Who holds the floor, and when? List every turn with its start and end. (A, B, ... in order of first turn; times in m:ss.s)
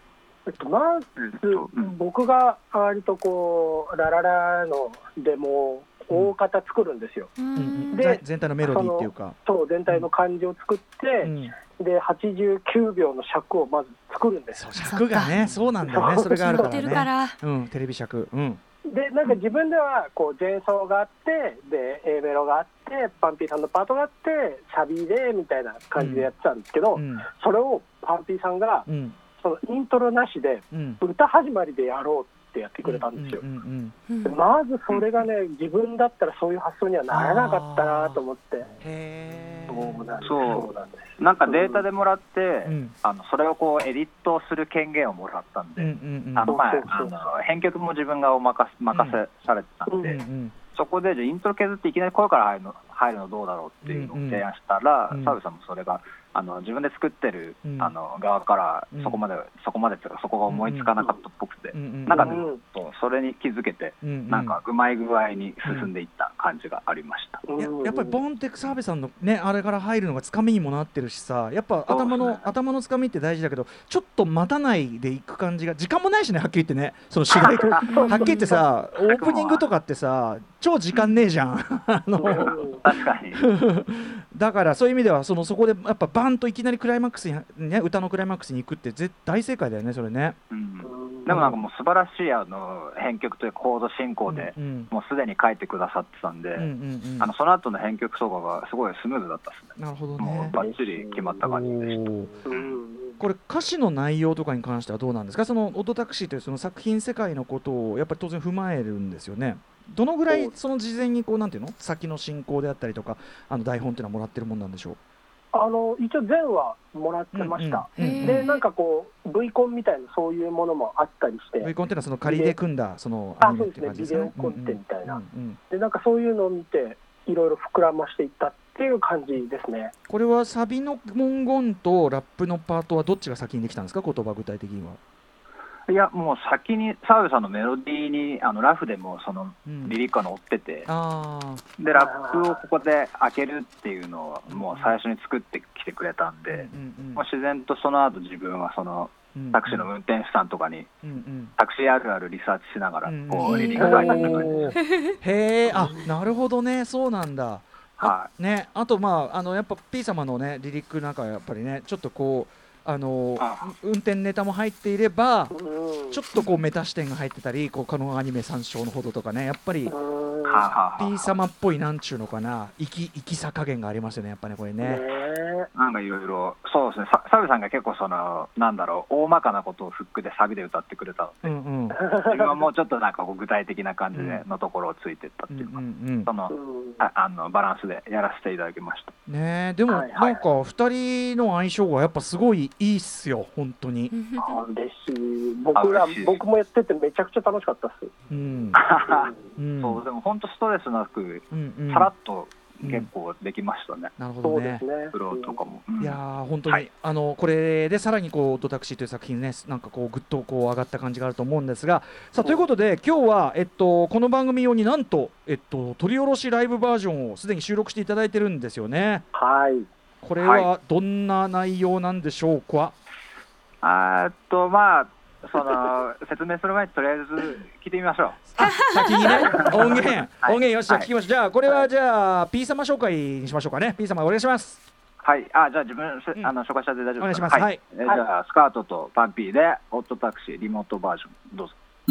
0:00.5-0:07.3 A
0:01.2-0:01.9 B
0:07.4-0:08.0 C
0:07.6-0:09.4 D
0:07.9-0:14.6 A
0:11.2-0:11.6 D
0:14.6-0:18.6 D
0:14.8-0:15.4 C
0:15.8-0:16.9 A
0:16.5-0:17.4 C
0:18.9-0:28.9 A
0:26.0-0:26.3 D
0:26.9-0:27.3 D
0:28.9-0:29.2 D
0:29.4-0:33.4 A
0:30.7-0:31.0 D
0:32.8-0:34.0 D
0:34.1-0:34.4 C
0:34.2-0:38.7 A
0:37.1-0:38.2 D
0:38.8-0:40.1 D
0:39.7-0:41.8 A
0:40.2-0:50.2 B
0:42.7-0:42.9 D
0:45.8-0:46.6 D
0:46.4-0:47.1 A
0:48.9-0:49.2 D
0:49.9-0:50.1 A
0:50.0-0:50.5 D
0:50.7-1:07.4 B
0:53.9-0:54.4 D
0:55.1-0:55.4 D
0:57.6-0:57.9 D
0:58.9-0:59.2 D
1:00.5-1:00.9 D
1:01.7-1:02.4 D
1:02.1-1:02.6 A
1:04.0-1:04.6 D
1:07.4-1:08.2 A
1:07.6-1:30.4 D
1:11.9-1:12.5 B
1:17.4-1:17.8 B
1:17.9-1:18.6 C
1:17.9-1:18.5 A
1:19.0-1:19.7 B
1:22.2-1:23.4 B
1:22.2-1:22.8 A
1:30.5-1:42.8 B
1:30.8-1:31.3 A
1:31.3-1:31.6 D
1:34.3-1:34.9 D
1:36.6-1:37.3 D
1:39.8-1:40.6 D
1:40.5-1:41.5 A
1:41.4-1:42.3 D
1:42.4-1:43.2 A
1:43.2-1:55.0 D
1:50.3-1:50.5 A
1:55.5-2:01.7 A
1:57.3-1:58.5 D
1:58.0-1:58.6 C
2:01.6-2:05.6 D
2:02.2-2:02.6 A
2:03.4-2:09.9 A
2:10.1-2:15.0 D
2:15.9-2:20.9 B
2:19.7-2:20.0 D
2:20.8-2:21.6 D
2:21.8-2:30.9 B
2:21.9-2:22.6 A
2:24.5-2:24.9 D
2:26.5-2:27.2 D
2:29.3-2:29.9 D
2:31.0-2:31.6 D
2:31.6-2:34.6 B
2:33.0-2:45.6 D
2:33.5-2:34.7 A
2:38.0-2:38.3 B
2:43.4-2:43.7 B
2:45.5-2:46.2 A
2:46.1-2:49.9 D
2:49.9-2:50.7 A
2:50.4-2:51.3 B
2:51.0-2:55.1 D
2:54.8-2:55.7 A
2:55.7-3:01.5 B
3:01.4-3:02.0 D
3:01.9-3:02.6 A
3:02.2-3:09.1 B
3:04.1-3:04.4 D
3:05.5-3:06.3 D
3:06.5-3:07.0 A
3:09.3-3:14.1 D
3:09.9-3:10.5 A
3:14.1-3:14.6 C
3:14.4-3:18.1 A
3:15.7-3:16.4 B
3:18.3-3:18.8 D
3:18.7-3:24.1 B
3:19.6-3:20.0 D
3:21.5-3:22.1 D
3:22.8-3:23.1 D
3:24.2-3:24.8 D
3:24.4-3:25.6 A
3:25.1-3:26.8 B
3:26.0-3:39.2 D
3:39.3-3:39.9 A
3:40.2-3:42.9 D
3:40.4-3:40.7 B
3:43.8-3:48.4 B
3:48.6-3:54.8 D
3:48.6-3:49.4 C
3:49.3-3:51.1 B
3:55.2-4:01.7 B
3:57.2-3:57.8 D